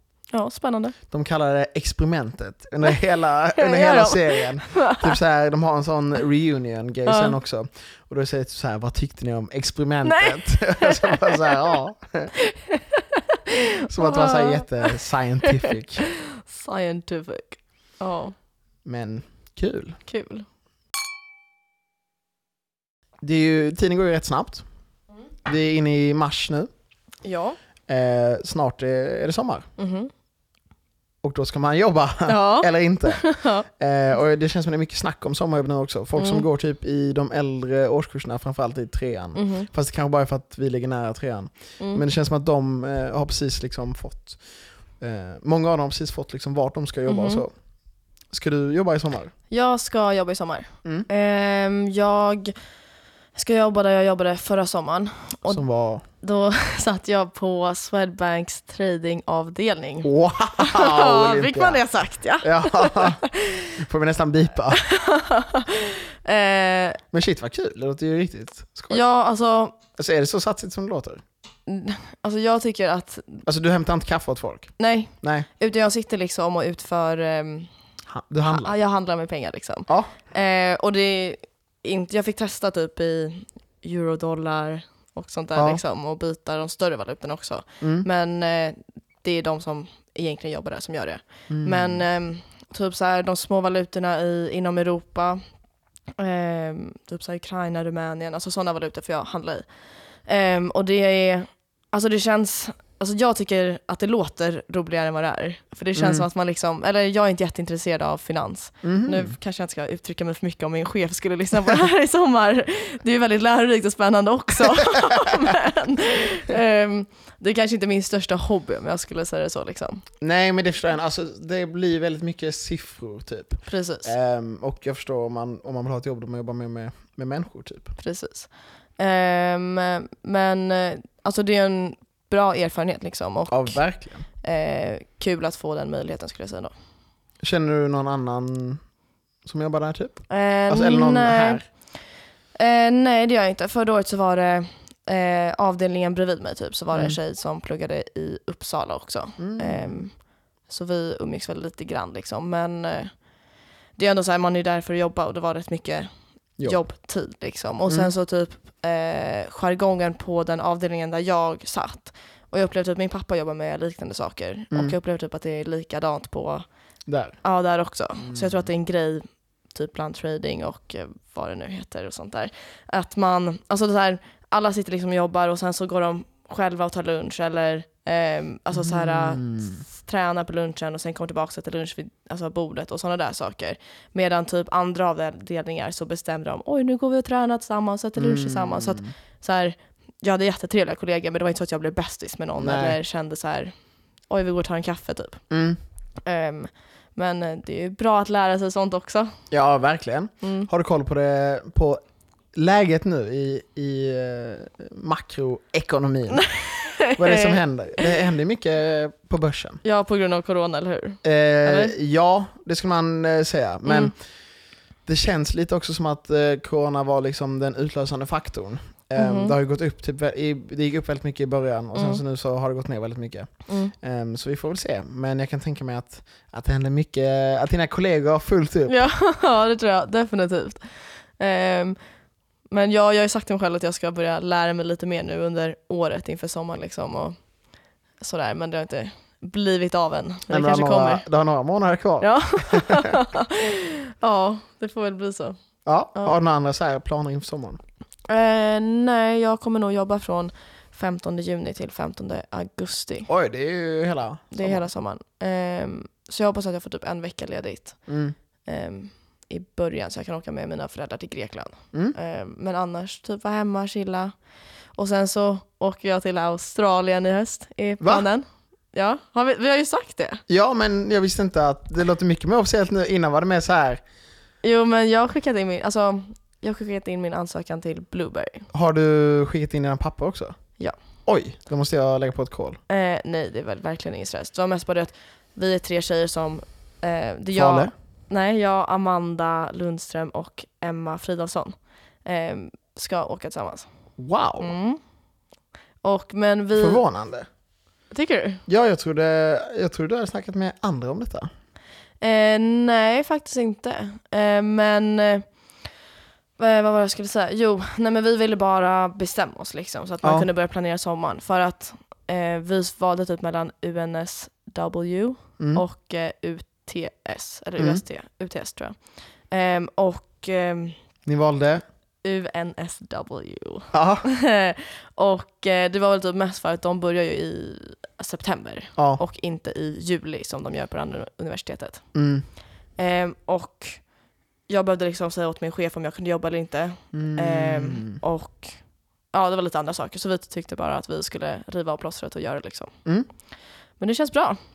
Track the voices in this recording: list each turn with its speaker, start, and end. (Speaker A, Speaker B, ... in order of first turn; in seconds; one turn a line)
Speaker A: 0.3-0.9
Speaker B: 1.1-12.3
Speaker A: 3.6-5.2
Speaker A: 7.0-7.3
Speaker A: 10.0-11.7
Speaker A: 12.4-14.9
Speaker B: 13.9-16.0
Speaker A: 15.6-18.3
Speaker B: 18.8-20.0
Speaker A: 20.1-20.4
Speaker B: 23.2-24.6
Speaker B: 25.4-26.7
Speaker A: 27.2-27.6
Speaker B: 27.9-29.7
Speaker A: 29.8-30.1
Speaker B: 31.2-44.4
Speaker A: 32.2-33.6
Speaker A: 36.2-36.5
Speaker A: 39.3-39.7
Speaker A: 41.8-42.0
Speaker B: 45.0-47.5
Speaker A: 47.1-47.4
Speaker B: 48.3-49.3
Speaker A: 49.5-52.5
Speaker A: 53.3-55.6
Speaker B: 55.5-56.0
Speaker A: 56.2-63.7
Speaker B: 60.0-61.8
Speaker B: 62.4-63.2
Speaker B: 63.8-64.8
Speaker A: 64.7-67.0
Speaker B: 67.1-69.0
Speaker A: 68.9-69.8
Speaker B: 70.0-71.2
Speaker A: 71.7-73.4
Speaker B: 73.4-75.5
Speaker A: 74.8-77.7
Speaker B: 78.1-78.7
Speaker A: 78.5-95.4
Speaker B: 79.9-80.2
Speaker B: 85.5-85.8
Speaker B: 87.8-88.1
Speaker B: 91.5-92.0
Speaker A: 96.2-99.7
Speaker A: 100.2-120.0
Speaker B: 106.0-106.2
Speaker B: 108.8-109.3
Speaker B: 114.9-115.5
Speaker B: 120.2-127.9
Speaker A: 123.6-124.1
Speaker A: 128.0-133.8
Speaker B: 133.5-134.2
Speaker A: 134.4-136.7
Speaker B: 137.4-138.8
Speaker B: 139.4-141.6
Speaker A: 140.3-141.7
Speaker A: 142.6-150.2
Speaker B: 146.9-147.2
Speaker B: 149.4-150.0
Speaker A: 150.7-153.1
Speaker A: 153.9-156.1
Speaker A: 156.6-166.7
Speaker B: 167.1-167.4
Speaker A: 167.4-193.7
Speaker B: 168.2-168.6
Speaker B: 178.7-179.8
Speaker B: 188.2-189.1
Speaker B: 192.6-193.0
Speaker A: 194.3-195.4
Speaker B: 195.5-195.8
Speaker A: 196.2-199.3
Speaker B: 199.5-202.0
Speaker A: 200.4-200.7
Speaker B: 202.5-206.5
Speaker A: 206.5-207.6
Speaker B: 207.1-209.8
Speaker A: 209.8-211.9
Speaker B: 211.2-214.2
Speaker A: 213.8-214.1
Speaker B: 215.1-229.0
Speaker A: 219.2-219.6
Speaker A: 221.9-222.2
Speaker A: 223.7-223.9
Speaker A: 228.9-232.0
Speaker A: 232.7-237.4
Speaker A: 238.2-241.2
Speaker B: 240.5-243.2
Speaker A: 242.2-245.6
Speaker B: 245.8-247.8
Speaker A: 248.3-253.3
Speaker B: 253.3-254.8
Speaker A: 254.5-258.0
Speaker B: 258.1-258.3
Speaker A: 258.6-264.3
Speaker A: 264.9-270.4
Speaker B: 268.0-268.2
Speaker B: 270.5-274.0
Speaker A: 274.6-278.7
Speaker B: 278.7-280.5
Speaker B: 281.2-282.8
Speaker A: 282.9-293.9
Speaker B: 287.5-287.9
Speaker B: 294.2-294.7
Speaker A: 294.6-295.0
Speaker A: 296.0-297.0
Speaker B: 296.8-297.5
Speaker A: 298.1-298.6
Speaker B: 298.7-301.5
Speaker A: 302.2-305.4
Speaker A: 306.6-320.9
Speaker B: 317.8-318.0
Speaker B: 321.2-321.8
Speaker A: 322.2-332.1
Speaker B: 323.9-324.3
Speaker B: 329.0-329.2
Speaker B: 332.1-332.4
Speaker A: 333.0-334.0
Speaker A: 334.7-338.8
Speaker B: 337.1-338.2
Speaker A: 339.3-342.9
Speaker A: 344.0-344.6